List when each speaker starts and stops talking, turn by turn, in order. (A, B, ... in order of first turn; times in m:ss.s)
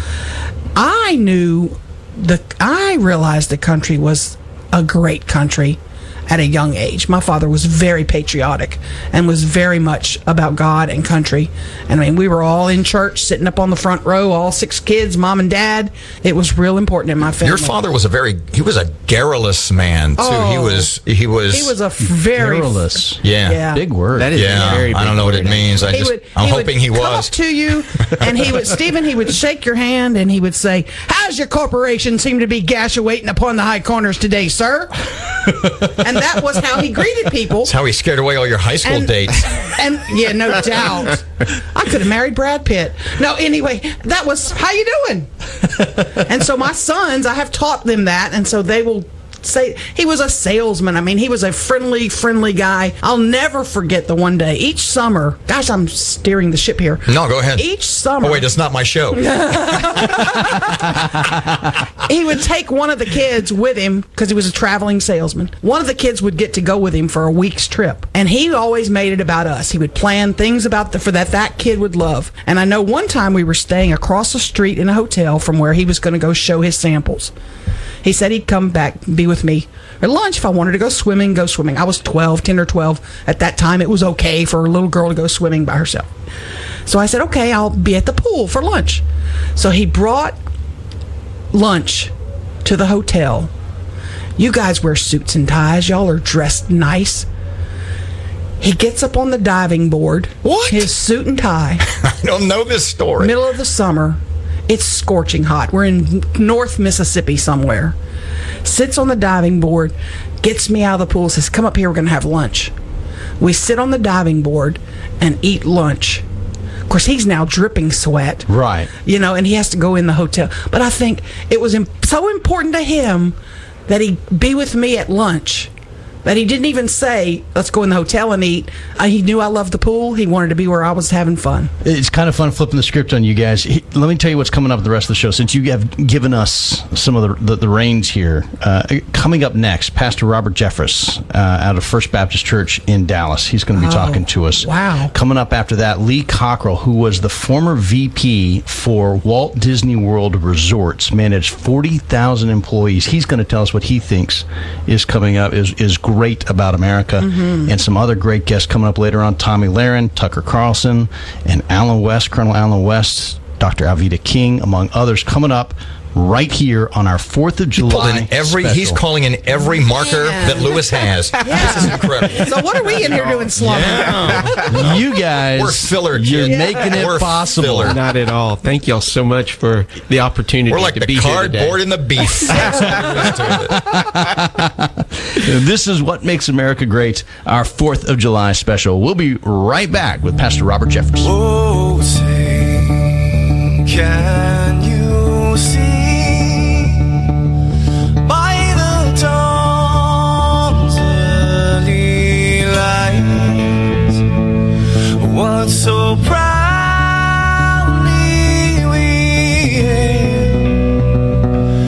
0:00.7-0:17.8 A
0:17.4-0:21.7 B
0:20.2-0:20.9 A
0:21.5-0:23.8 A
0:22.3-0:24.4 C
0:23.2-0:23.6 B
0:24.1-0:25.9 D
0:24.3-0:27.3 B
0:25.9-0:37.7 A
0:28.0-0:28.2 B
0:37.6-0:39.6 B
0:38.8-0:45.3 A
0:45.8-0:58.5 A
0:57.1-0:57.6 B
0:58.2-0:59.3 B
0:59.1-1:01.1 A
1:02.0-1:17.3 A
1:18.0-1:26.1 A
1:26.8-1:29.0 A
1:29.6-1:30.4 A
1:31.5-1:32.1 A
1:32.6-1:33.5 A
1:34.4-1:37.3 A
1:38.6-1:41.8 A
1:40.4-1:40.9 B
1:42.0-1:43.3 B
1:43.2-1:48.0 A
1:48.6-1:52.7 A
1:53.4-1:56.2 A
1:56.9-1:58.5 A
1:58.5-1:58.9 C
1:59.0-2:05.7 A
2:06.2-2:11.7 A
2:11.8-2:49.0 C
2:23.7-2:25.1 A
2:37.2-2:37.7 A
2:47.8-2:52.5 B
2:50.1-2:50.8 A
2:51.4-2:54.5 A
2:52.9-2:53.5 D
2:53.5-2:58.0 B
2:54.1-2:54.5 D
2:54.6-2:58.0 C
2:56.4-2:57.0 A
2:57.8-3:02.9 D
3:00.7-3:04.0 B
3:02.5-3:03.3 A
3:03.4-3:11.3 C
3:11.4-3:17.3 E
3:18.2-3:24.1 E
3:25.1-3:31.0 E